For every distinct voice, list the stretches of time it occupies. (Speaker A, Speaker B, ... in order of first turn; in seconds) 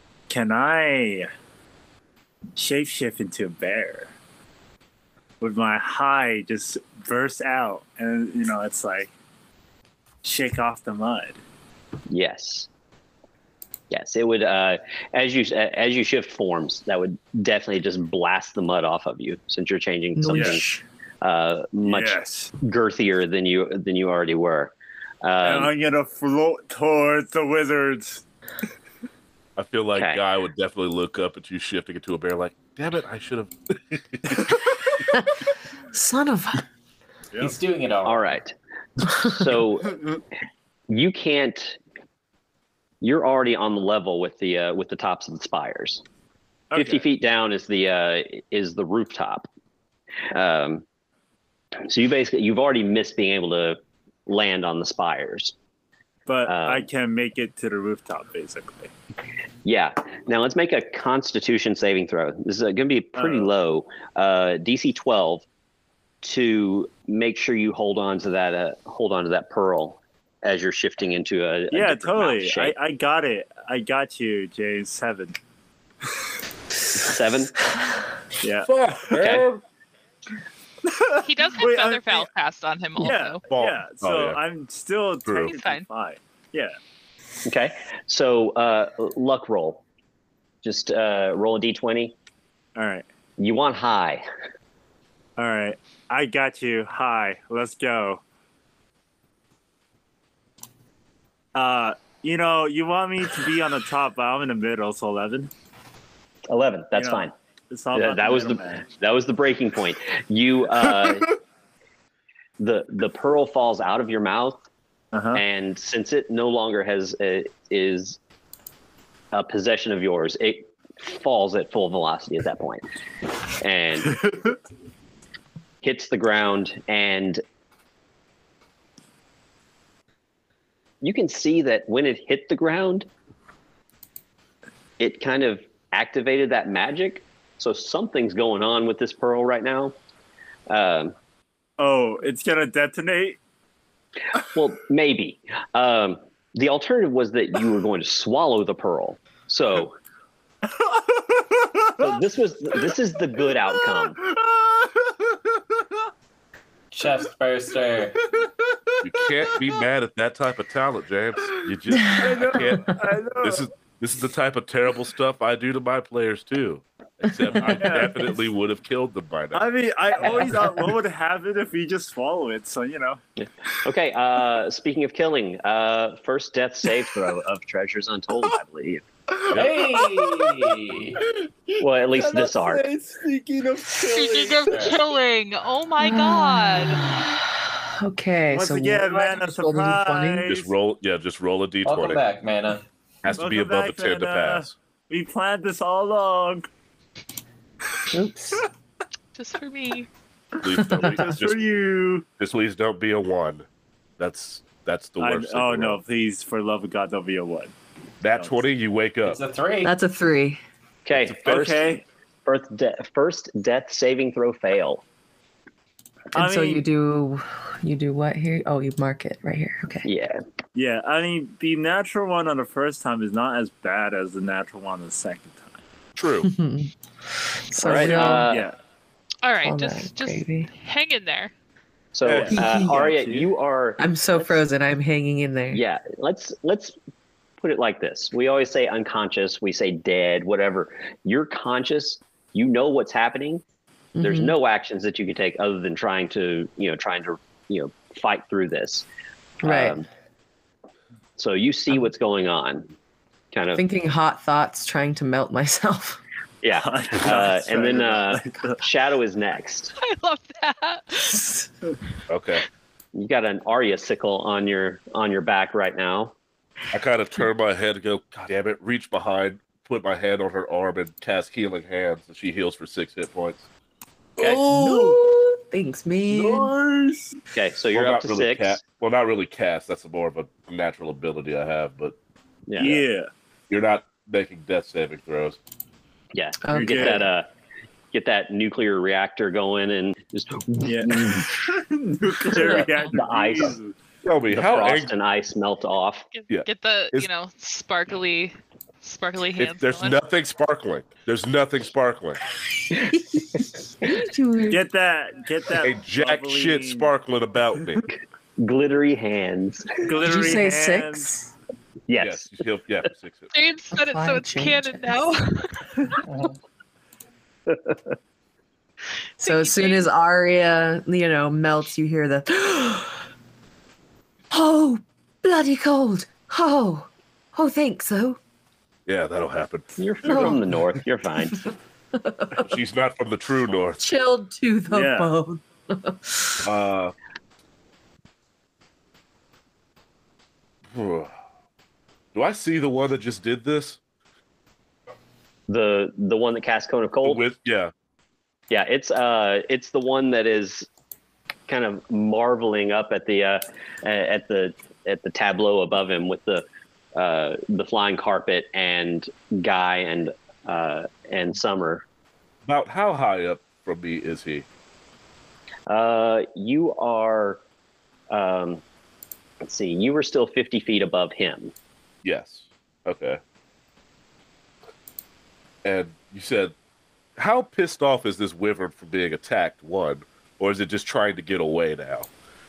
Speaker A: 0.3-1.3, 2.6-4.1, 5.4-9.1, 10.2-11.4, 20.3-20.6, 21.8-22.5, 25.4-28.2, 46.7-47.0, 56.3-58.9, 63.2-63.5, 71.7-75.4, 78.4-78.7, 80.8-82.3, 83.0-86.8, 92.8-93.1, 95.4-98.2, 101.5-105.5, 107.0-108.9, 115.1-115.4, 124.1-124.5, 141.8-143.4, 150.7-152.1, 154.1-155.2, 162.2-163.7, 167.5-168.3, 169.5-173.2, 179.3-185.0, 188.5-190.7, 193.3-196.7, 201.0-202.2, 205.2-207.7, 211.4-212.0, 216.3-216.8, 220.8-225.8, 228.0-228.8, 232.3-233.5, 256.8-258.8, 274.4-275.2, 276.3-277.4, 282.8-283.3, 286.7-287.2, 290.9-293.9, 304.7-307.1, 310.0-311.3, 334.9-335.3
Speaker B: 12.1-12.7, 13.9-20.7, 21.2-25.7, 29.9-30.2, 38.0-38.5, 39.2-40.0, 40.9-41.8, 43.0-46.0, 46.8-49.5, 50.3-50.8, 51.9-55.5, 56.5-56.9, 59.6-65.5, 66.2-72.8, 77.0-77.6, 79.1-79.5, 87.5-89.8, 90.6-92.2, 93.4-94.2, 106.5-107.3, 107.9-111.4, 112.6-114.7, 115.3-118.2, 119.3-122.8, 123.6-124.3, 125.8-127.4, 131.0-133.1, 135.0-139.9, 140.7-141.2, 144.4-150.0, 152.0-154.2, 173.4-179.1, 181.8-182.8, 211.1-215.0, 220.1-220.4, 227.8-228.7, 232.1-234.6, 235.7-237.0, 237.6-243.6, 244.2-249.1, 249.6-250.1, 251.4-252.9, 253.5-253.8, 256.6-259.9, 263.1-266.4, 277.5-278.8, 282.7-283.0, 286.3-287.5, 288.1-291.6, 292.4-293.8, 294.5-296.3, 308.1-310.2, 312.1-312.5, 317.7-318.0, 330.0-331.6, 345.7-347.4, 348.7-350.9, 351.7-362.1, 365.9-367.6, 368.3-368.8, 369.6-371.7
Speaker C: 20.2-20.8, 35.1-35.4, 35.9-36.6, 186.0-187.4, 188.0-190.6, 198.1-198.7, 200.7-201.3, 209.8-210.6, 216.3-220.1, 226.4-226.9, 227.7-228.6, 229.6-230.7, 232.5-233.2, 234.0-235.8, 244.2-244.6, 249.6-250.0, 253.8-256.2, 274.6-276.7, 286.6-287.2, 303.1-304.9, 310.2-311.5, 313.9-315.2, 319.4-323.2, 324.5-328.4, 330.2-330.6, 331.5-332.7, 334.0-336.7
Speaker D: 29.6-34.5, 78.6-79.6, 83.5-84.4, 85.3-85.5, 159.0-169.7, 190.5-192.2, 193.2-194.7, 200.6-201.7, 202.4-203.7, 204.2-206.0, 208.2-209.4, 211.3-211.7, 226.2-226.5, 232.2-232.5, 262.3-262.6, 266.9-273.7, 277.9-282.2, 283.7-285.6, 294.2-295.1, 296.5-297.3, 299.6-302.4, 305.8-308.1, 312.2-313.5, 329.1-329.9, 332.6-334.0, 336.6-337.1, 340.9-341.3, 342.4-344.0, 347.2-347.9, 362.7-364.7, 372.2-373.4, 375.8-376.8, 377.4-382.3
Speaker E: 37.4-38.3, 156.9-158.2, 179.5-181.2, 184.7-185.0, 191.8-192.8, 209.2-209.9
Speaker F: 81.2-83.4, 85.4-85.9, 184.0-187.0, 199.4-200.1, 229.4-231.5, 260.0-261.6, 296.3-300.2, 313.5-315.8, 319.4-320.1